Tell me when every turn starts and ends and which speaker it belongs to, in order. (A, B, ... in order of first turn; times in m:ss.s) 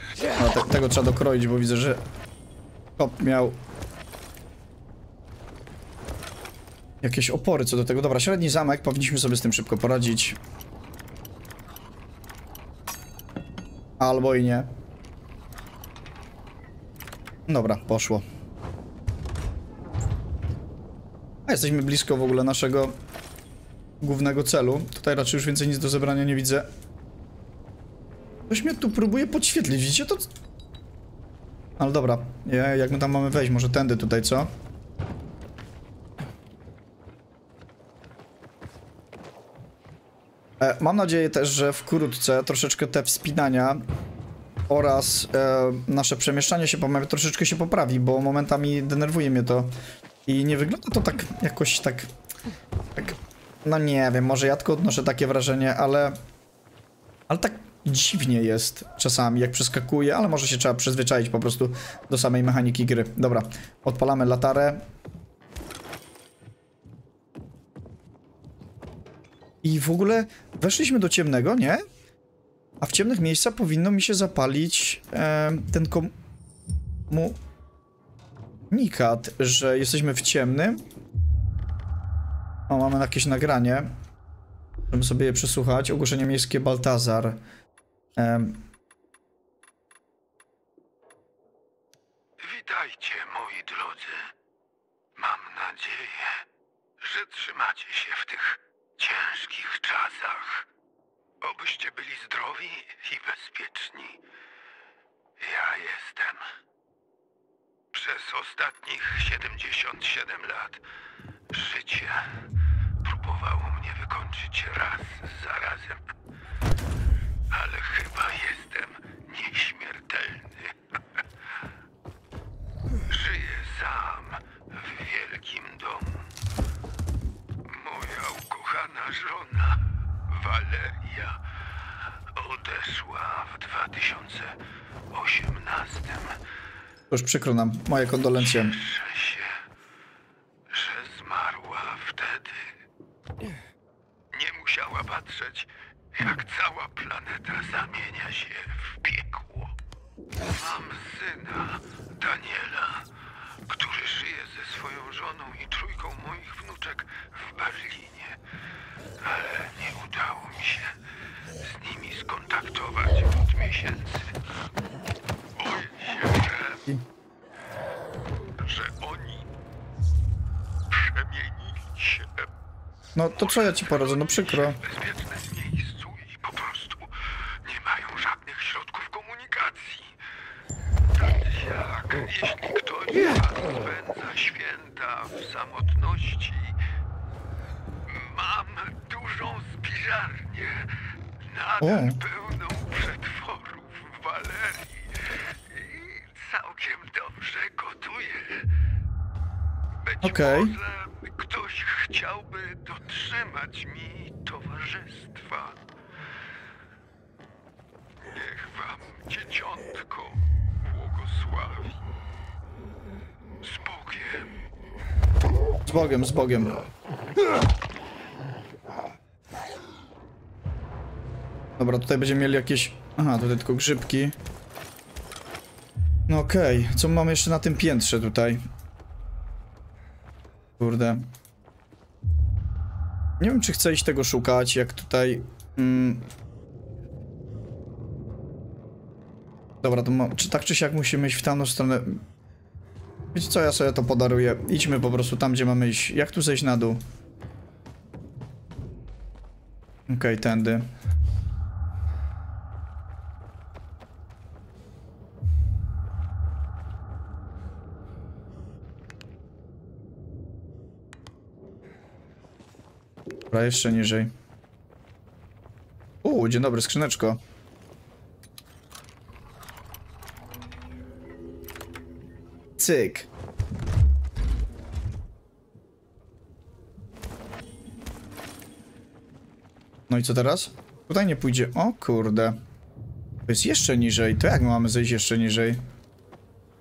0:00.4-0:02.0 A
0:03.0-0:03.6 A
0:07.0-0:10.4 A
0:14.0-0:14.7 A
0:17.5-0:18.2 A
0:21.5-0:23.0 A
0:24.0-0:26.7 A
0:28.5-0:30.3 A
0:31.8-0:34.5 A
0:40.6-0:43.8 A
0:44.7-0:49.7 A
0:50.3-0:52.1 A
0:53.0-0:56.2 A
0:57.3-1:04.8 A
1:09.6-1:11.8 A
1:12.8-1:16.1 A
1:17.1-1:17.4 A
1:18.7-1:20.8 A
1:22.7-1:23.9 A
1:24.9-1:27.4 A
1:28.2-1:28.6 A
1:32.4-1:34.3 B
1:35.2-1:36.4 B
1:37.0-1:40.7 B
1:41.4-1:44.2 B
1:45.4-1:46.4 B
1:47.9-1:50.8 B
1:51.5-1:52.4 B
1:53.0-1:56.0 B
1:57.5-2:00.8 B
2:03.1-2:06.2 B
2:07.7-2:11.4 B
2:12.3-2:14.5 B
2:15.1-2:16.4 B
2:17.1-2:18.8 A
2:18.4-2:19.6 B
2:20.7-2:22.7 B
2:24.3-2:29.7 B
2:30.4-2:33.0 B
2:33.7-2:38.4 B
2:39.2-2:41.0 B
2:41.5-2:44.3 B
2:45.6-2:46.8 B
2:48.6-2:49.5 B
2:50.9-2:52.5 B
2:53.2-2:54.8 A
2:53.3-2:57.1 B
2:57.6-3:00.1 B
3:01.2-3:06.8 B
3:08.1-3:10.9 B
3:11.4-3:18.6 B
3:11.8-3:12.2 A
3:20.0-3:25.8 B
3:20.2-3:20.7 A
3:28.2-3:32.1 B
3:33.6-3:34.5 B
3:35.9-3:36.8 A
3:41.8-3:44.4 A
3:46.3-3:48.6 A
3:50.8-3:51.2 A
3:53.4-3:56.3 A
3:59.8-4:02.2 A
4:03.3-4:07.0 A
4:10.1-4:10.9 A
4:23.5-4:24.3 A
4:26.2-4:27.4 A
4:32.8-4:33.3 A
4:40.1-4:42.6 A
4:43.5-4:45.8 A